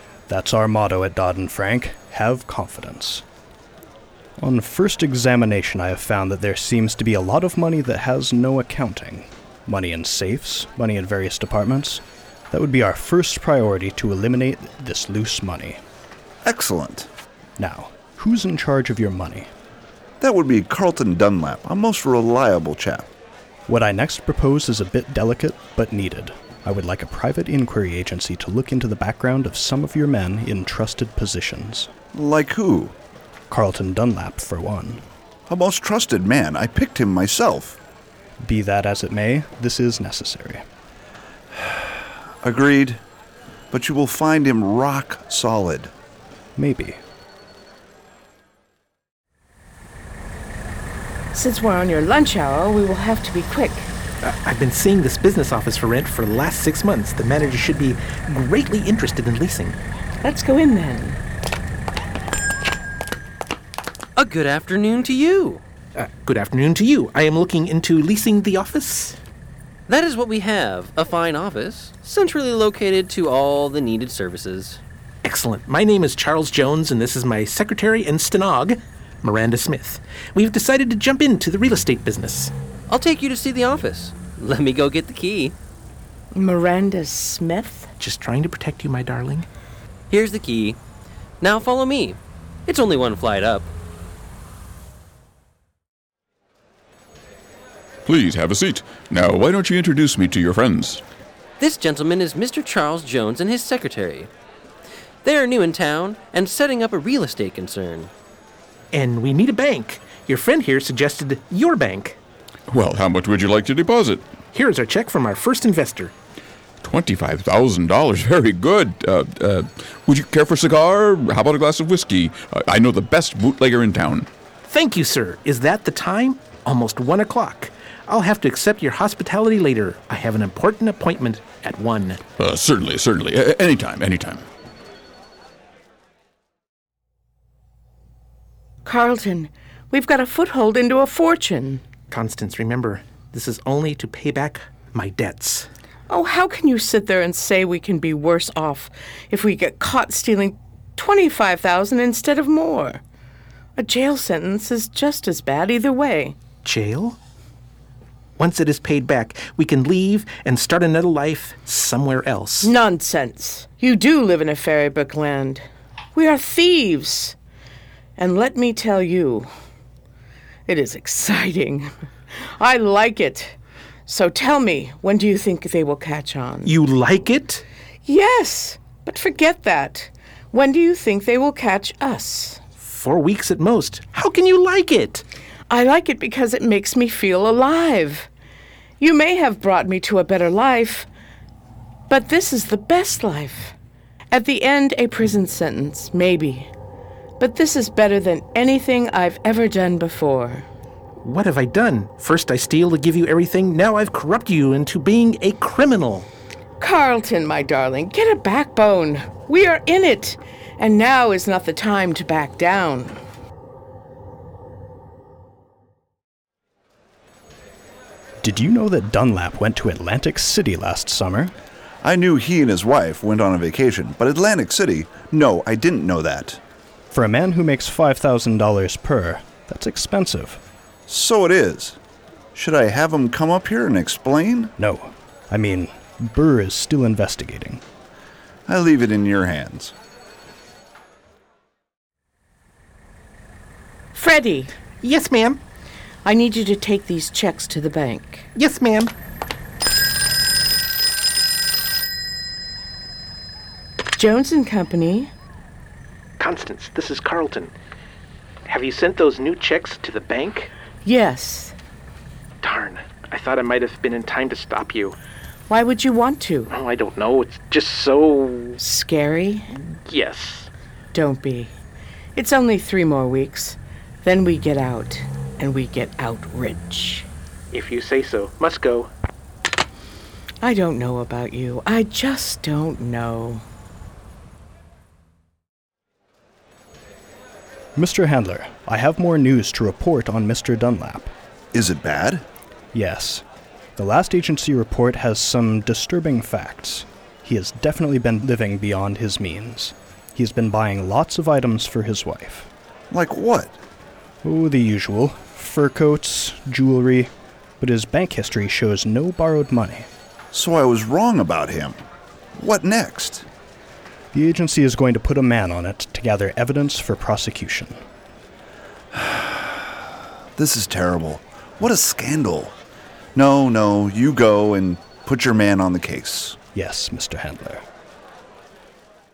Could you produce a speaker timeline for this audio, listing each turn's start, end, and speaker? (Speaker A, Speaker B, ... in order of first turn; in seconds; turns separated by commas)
Speaker A: 0.3-3.2, Speaker A: 4.4-15.8, Speaker B: 16.4-17.1, Speaker A: 17.6-19.5, Speaker B: 20.2-23.1, Speaker A: 23.7-31.9, Speaker B: 32.1-32.9, Speaker A: 33.5-35.0, Speaker B: 35.5-37.8, Speaker A: 38.4-40.6, Speaker B: 41.5-43.0, Speaker B: 43.7-45.9, Speaker A: 46.5-47.0, Speaker C: 51.3-53.9, Speaker D: 54.2-59.8, Speaker C: 60.2-61.2, Speaker E: 64.2-65.6, Speaker D: 66.0-69.2, Speaker E: 69.9-74.8, Speaker D: 75.2-82.5, Speaker E: 82.9-85.5, Speaker C: 86.3-87.9, Speaker D: 88.0-89.5, Speaker E: 90.1-90.8, Speaker E: 91.4-93.7, Speaker F: 98.0-101.0, Speaker E: 101.6-104.3, Speaker E: 105.2-108.1, Speaker D: 108.9-112.2, Speaker F: 112.7-114.3, Speaker D: 114.5-116.1, Speaker F: 116.8-124.3, Speaker D: 124.7-132.2, Speaker F: 132.4-134.4, Speaker C: 138.8-141.8, Speaker D: 142.1-145.7, Speaker C: 146.1-153.0, Speaker C: 153.8-156.3, Speaker D: 156.6-157.2, Speaker D: 158.4-162.7, Speaker C: 162.6-167.3, Speaker C: 168.2-169.5, Speaker C: 170.7-171.9, Speaker C: 172.6-173.6, Speaker C: 174.1-176.7, Speaker D: 176.6-177.6, Speaker C: 178.1-182.6, Speaker D: 182.8-185.2, Speaker C: 185.7-188.3, Speaker C: 189.0-191.1, Speaker C: 192.1-193.7, Speaker C: 194.3-196.7, Speaker C: 197.4-200.6, Speaker D: 201.2-206.3, Speaker C: 206.8-213.2, Speaker A: 218.4-221.5, Speaker B: 222.0-226.6, Speaker A: 227.1-230.6, Speaker B: 231.1-232.0, Speaker B: 232.5-234.7, Speaker A: 234.8-237.8, Speaker B: 238.7-239.9, Speaker C: 244.1-244.7, Speaker D: 245.0-245.6, Speaker C: 246.2-248.5, Speaker D: 248.5-249.1, Speaker C: 254.2-255.3, Speaker D: 256.4-257.7, Speaker D: 258.6-260.7, Speaker C: 261.0-261.7, Speaker D: 262.6-265.2, Speaker C: 265.7-266.7, Speaker D: 266.7-268.8, Speaker C: 268.8-269.7, Speaker D: 269.8-270.7, Speaker C: 271.1-271.7, Speaker C: 272.3-277.3, Speaker D: 277.7-279.1, Speaker C: 280.6-283.6, Speaker A: 287.9-291.3, Speaker B: 291.7-292.4, Speaker A: 292.9-293.4, Speaker A: 293.9-302.7, Speaker B: 303.1-303.8, Speaker A: 304.4-310.1, Speaker B: 310.5-312.0, Speaker B: 312.6-313.4, Speaker A: 314.3-318.0, Speaker B: 319.1-320.0, Speaker B: 320.5-322.8, Speaker B: 323.3-326.6, Speaker A: 326.7-327.8